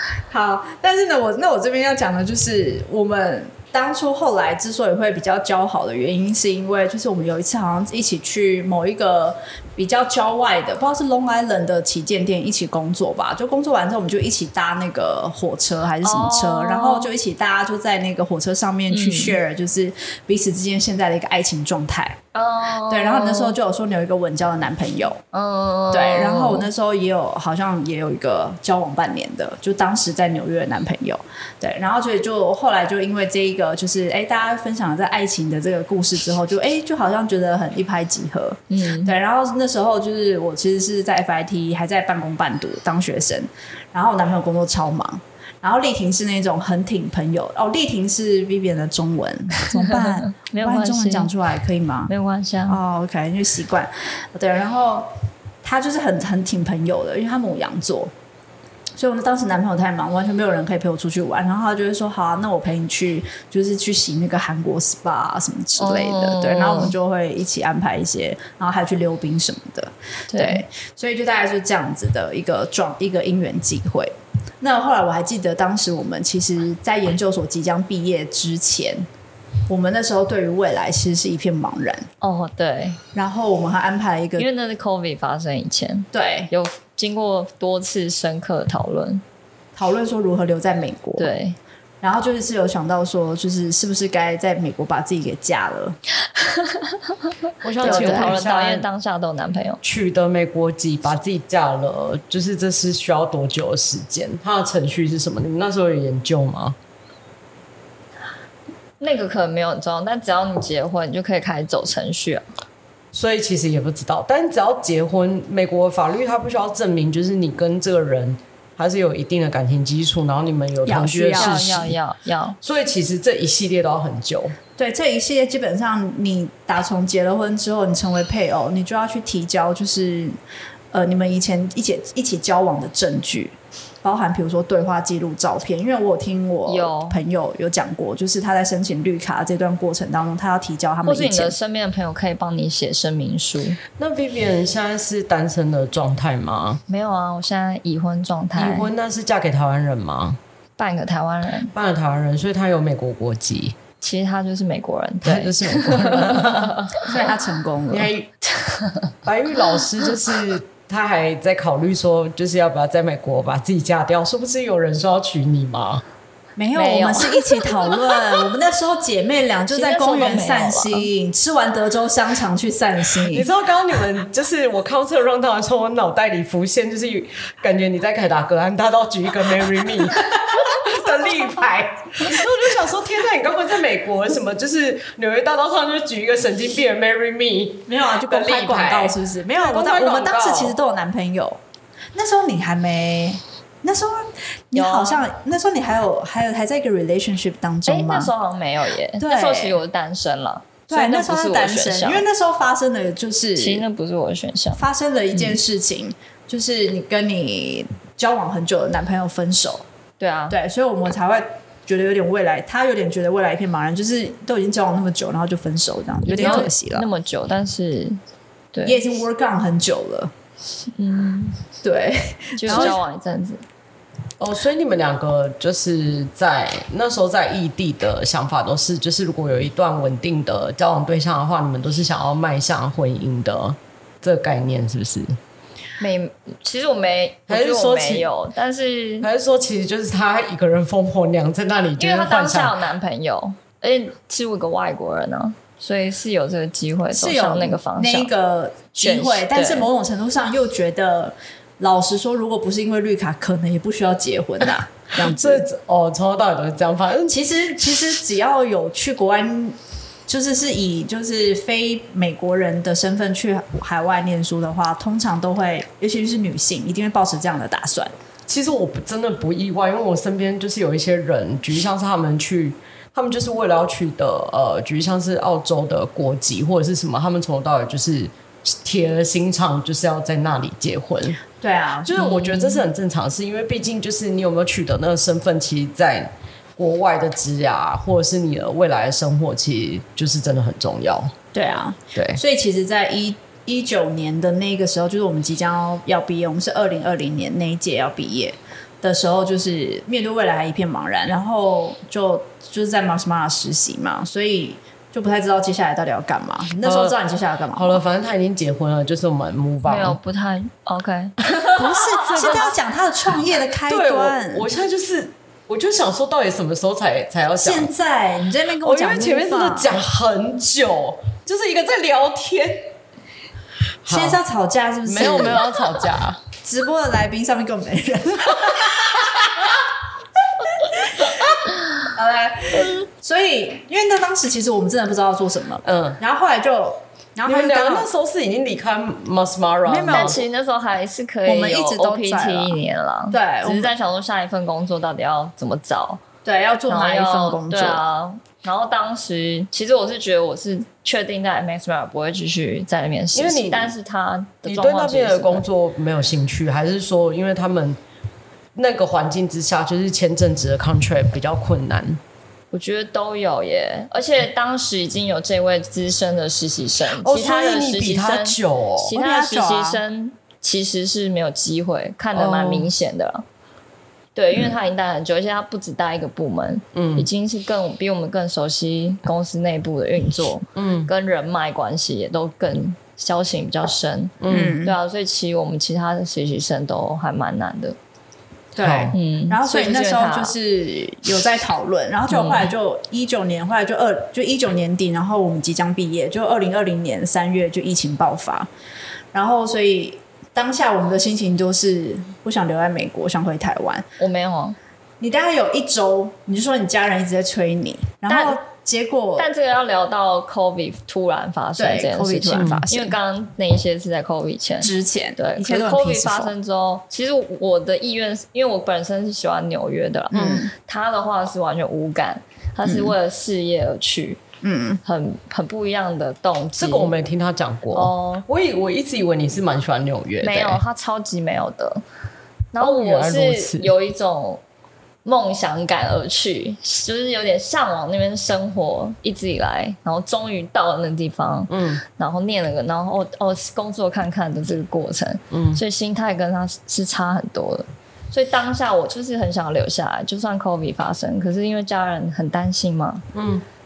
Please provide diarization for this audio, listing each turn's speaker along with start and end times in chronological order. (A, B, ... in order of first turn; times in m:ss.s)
0:00.3-0:22.2 A
0:16.0-0:17.1 B
0:18.9-0:19.4 B
0:22.3-0:23.6 B
0:22.9-0:25.2 A
0:25.3-0:26.7 B
0:25.9-0:52.1 A
0:38.7-0:39.2 B
0:49.7-0:51.3 B
0:52.1-0:52.8 B
0:52.7-0:55.1 A
0:55.6-0:58.1 A
0:59.0-1:19.1 A
1:05.8-1:06.9 B
1:10.3-1:10.6 B
1:19.7-1:22.1 A
1:22.2-1:23.0 B
1:23.2-1:24.5 A
1:24.4-1:29.2 B
1:26.1-1:26.5 A
1:29.8-1:31.3 A
1:31.2-1:31.6 B
1:32.0-1:36.0 A
1:36.4-1:37.1 B
1:37.6-1:38.8 C
1:37.8-1:39.8 B
1:37.8-1:38.4 A
1:39.8-1:46.8 C
1:49.0-1:52.4 B
1:53.1-2:01.9 C
2:00.8-2:01.7 A
2:01.4-2:02.6 B
2:02.6-2:04.6 C
2:04.8-2:10.4 A
2:10.9-2:21.6 A
2:16.7-2:17.2 B
2:21.1-2:23.8 B
2:24.0-2:26.8 C
2:26.9-2:28.9 B
2:28.6-2:30.4 C
2:30.8-2:31.7 B
2:31.7-2:33.8 C
2:34.0-2:37.1 B
2:35.2-2:36.9 C
2:37.0-2:38.1 A
2:37.9-2:38.4 C
2:39.2-2:46.0 C
2:46.6-2:53.5 A
2:46.8-2:48.2 B
2:49.7-2:51.1 B
2:53.2-3:10.8 C
3:07.9-3:11.6 A
3:12.1-3:18.3 A
3:14.7-3:15.2 B
3:17.9-3:22.2 B
3:19.2-3:19.8 A
3:20.9-3:23.8 A
3:23.6-3:24.8 B
3:24.8-3:29.8 A
3:30.2-3:30.6 B
3:30.5-3:37.1 A
3:36.3-3:38.2 B
3:38.7-3:39.2 B
3:38.8-3:40.3 A
3:41.0-3:41.6 B
3:41.8-3:43.0 A
3:42.6-3:43.6 B
3:42.7-3:42.9 C
3:44.4-3:55.4 C
3:56.0-3:59.3 B
3:57.5-3:58.3 C
3:59.2-4:02.8 C
4:02.0-4:08.3 B
4:07.1-4:15.7 A
4:09.0-4:09.9 B
4:15.2-4:17.5 C
4:17.3-4:28.1 A
4:28.5-4:41.4 C
4:41.6-4:42.2 A
4:42.0-4:51.3 C
4:42.2-4:42.8 B
4:51.5-5:08.0 A
4:52.2-4:52.4 C
5:06.8-5:07.2 C
5:07.7-5:10.2 C
5:09.8-5:12.7 B
5:11.8-5:14.7 A
5:12.3-5:12.7 C
5:13.9-5:17.9 C
5:17.6-5:20.0 A
5:18.8-5:22.9 C
5:24.0-5:24.4 C
5:24.1-5:25.8 A
5:25.1-5:26.4 C
5:26.6-5:29.8 A
5:29.2-5:29.5 C
5:30.6-5:31.6 A
5:32.1-5:38.1 A
5:35.8-5:36.2 C
5:37.5-5:40.4 C
5:39.8-5:40.4 A
5:40.1-5:46.2 B
5:41.5-5:42.8 A
5:43.3-5:43.9 A
5:46.4-5:48.0 A
5:46.9-5:55.6 B
5:53.3-5:53.9 C
5:54.7-5:58.0 C
5:58.8-6:02.2 C
6:02.7-6:13.4 B
6:07.2-6:09.1 C
6:09.1-6:10.0 A
6:12.3-6:12.9 C
6:14.4-6:28.0 B
6:16.9-6:17.3 C
6:20.8-6:21.1 C
6:24.4-6:24.8 C
6:24.5-6:25.0 A
6:28.8-6:38.7 A
6:28.8-6:29.2 C
6:29.1-6:30.6 B
6:32.3-6:32.7 B
6:39.3-6:44.1 A
6:44.2-6:44.8 B
6:45.2-6:49.5 A
6:48.3-6:48.6 B
6:49.4-7:04.4 B
6:51.8-6:53.2 A
6:52.5-6:52.8 C
6:54.8-6:56.5 A
7:00.3-7:00.7 A
7:02.8-7:03.2 A
7:04.6-7:05.0 A
7:05.0-7:07.1 B
7:06.8-7:10.8 C
7:07.9-7:08.5 B
7:10.4-7:12.0 B
7:12.7-7:14.6 B
7:12.8-7:13.9 C
7:15.2-7:33.2 B
7:21.7-7:22.0 C
7:25.5-7:25.8 C
7:33.3-7:33.6 C